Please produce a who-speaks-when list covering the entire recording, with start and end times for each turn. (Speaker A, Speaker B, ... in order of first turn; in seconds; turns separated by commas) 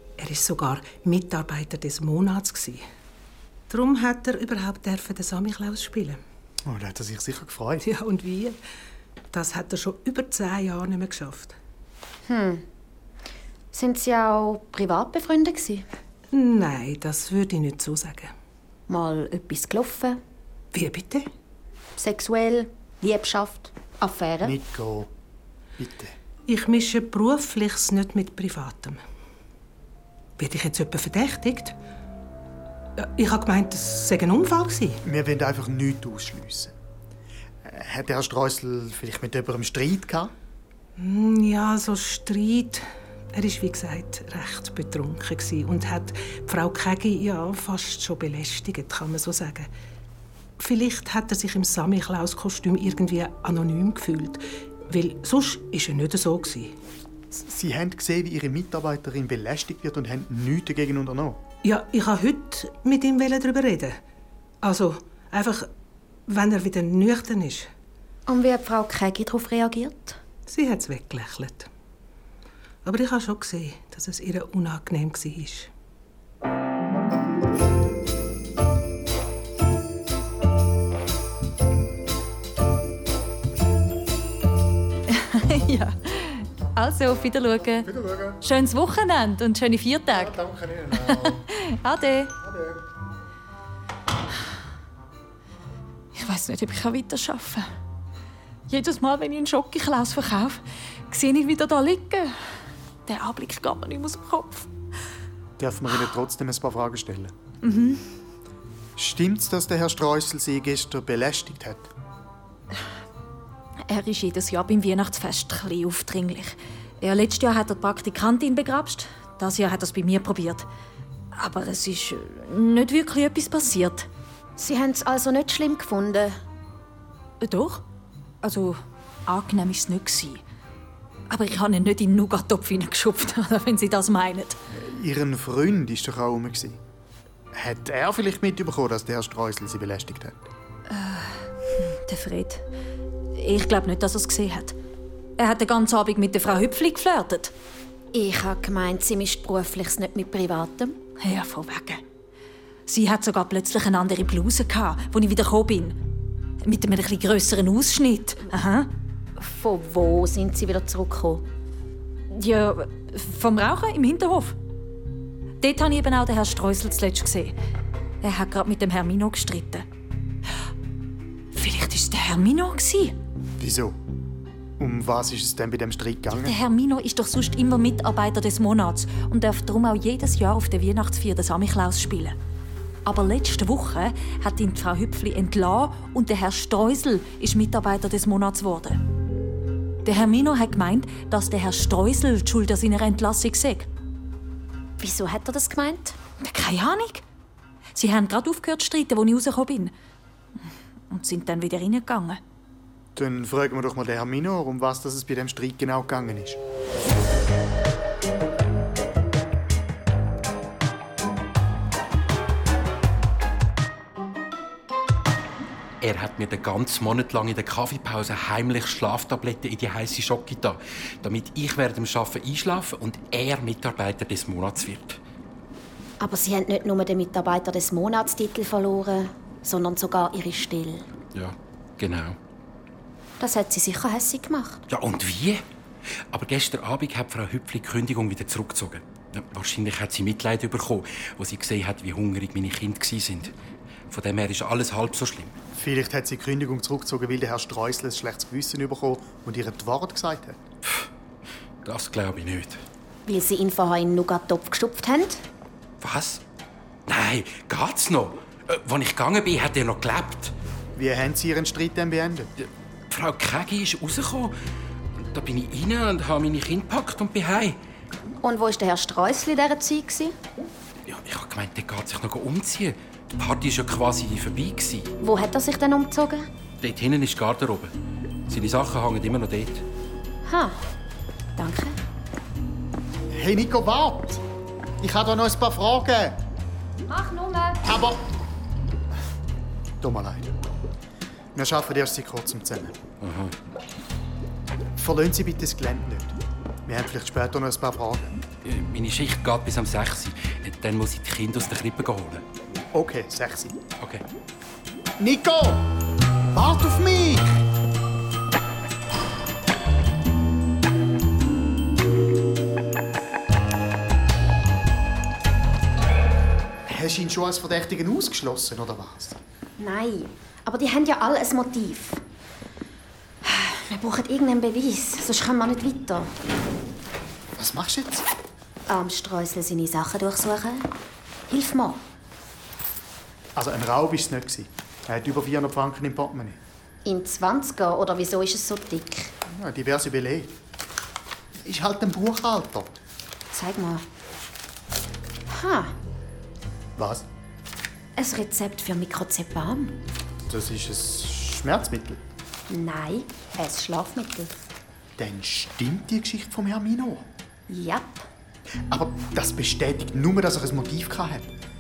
Speaker A: 0.2-2.8, Speaker A: 3.7-6.2, Speaker B: 6.7-7.9, Speaker A: 7.8-8.6, Speaker A: 9.3-11.6, Speaker C: 12.3-12.6, Speaker C: 13.7-15.8, Speaker A: 16.3-18.3, Speaker C: 18.9-20.2, Speaker A: 20.7-21.3, Speaker C: 22.0-24.6, Speaker B: 24.4-25.1, Speaker B: 25.8-26.1, Speaker A: 26.5-29.0, Speaker A: 30.4-31.7, Speaker A: 33.0-35.0, Speaker B: 35.0-36.7, Speaker B: 37.6-40.3, Speaker A: 41.0-49.7, Speaker A: 50.6-56.7, Speaker B: 57.3-61.4, Speaker A: 61.6-64.0, Speaker A: 64.6-65.7, Speaker A: 66.3-67.7, Speaker C: 68.3-70.2, Speaker A: 70.5-71.7, Speaker A: 72.8-75.7, Speaker D: 85.1-92.3, Speaker B: 87.9-88.4, Speaker B: 90.1-91.4, Speaker B: 92.4-92.8, Speaker D: 96.2-97.7, Speaker D: 98.7-102.4, Speaker D: 103.1-104.7, Speaker B: 105.6-107.3, Speaker D: 107.6-108.0, Speaker B: 109.0-111.9, Speaker D: 113.9-120.7, Speaker D: 121.3-124.1, Speaker C: 124.6-126.3, Speaker D: 127.4-127.8, Speaker D: 128.4-130.4, Speaker D: 131.3-134.6, Speaker B: 134.7-136.8, Speaker B: 137.5-140.4, Speaker D: 140.9-142.6, Speaker D: 143.3-144.8, Speaker D: 145.4-147.5, Speaker C: 148.1-151.0, Speaker D: 151.2-152.0, Speaker D: 152.9-156.0, Speaker D: 156.6-158.9, Speaker C: 159.4-161.4, Speaker D: 162.3-164.6, Speaker D: 165.6-167.5, Speaker D: 168.2-169.8, Speaker D: 171.5-173.2, Speaker B: 173.6-174.0, Speaker B: 174.8-176.6, Speaker D: 176.3-182.4, Speaker D: 183.1-189.0, Speaker D: 190.1-193.9, Speaker C: 195.0-196.2, Speaker D: 196.4-197.2, Speaker D: 197.9-199.9, Speaker D: 201.1-202.4, Speaker B: 203.2-206.6, Speaker E: 216.0-225.2, Speaker C: 226.2-231.1, Speaker E: 231.3-232.4, Speaker C: 233.4-234.8, Speaker E: 234.9-235.6, Speaker E: 236.3-243.5, Speaker E: 244.1-245.5, Speaker B: 245.8-250.6, Speaker E: 251.8-252.8, Speaker C: 253.3-255.4, Speaker E: 256.0-256.4, Speaker E: 257.1-260.5, Speaker B: 261.0-262.5, Speaker E: 262.6-264.5, Speaker E: 265.2-267.8, Speaker C: 268.4-270.3, Speaker E: 271.1-275.1, Speaker C: 275.2-276.5, Speaker E: 276.8-277.9, Speaker E: 278.5-279.9, Speaker C: 280.5-280.8, Speaker C: 281.6-282.0, Speaker B: 283.3-284.4, Speaker B: 285.0-286.4, Speaker C: 287.1-287.8, Speaker B: 287.8-288.2, Speaker B: 290.0-290.6, Speaker B: 291.6-293.0, Speaker E: 293.2-293.6, Speaker B: 295.0-296.4, Speaker B: 296.9-298.4, Speaker E: 298.6-302.4, Speaker B: 302.9-303.8, Speaker B: 305.2-305.9, Speaker B: 306.5-307.5, Speaker B: 316.9-319.4, Speaker C: 319.8-322.2, Speaker C: 323.4-326.3, Speaker B: 327.6-328.3, Speaker C: 328.9-330.9, Speaker C: 331.5-332.0, Speaker B: 333.6-336.6, Speaker C: 337.1-339.3, Speaker B: 339.5-340.5, Speaker B: 341.6-343.0, Speaker C: 343.5-344.1, Speaker C: 345.5-345.9, Speaker B: 347.0-347.3, Speaker C: 348.2-350.0, Speaker B: 350.5-352.2, Speaker C: 352.7-354.5, Speaker B: 355.2-357.3, Speaker C: 357.7-358.2, Speaker B: 358.9-361.5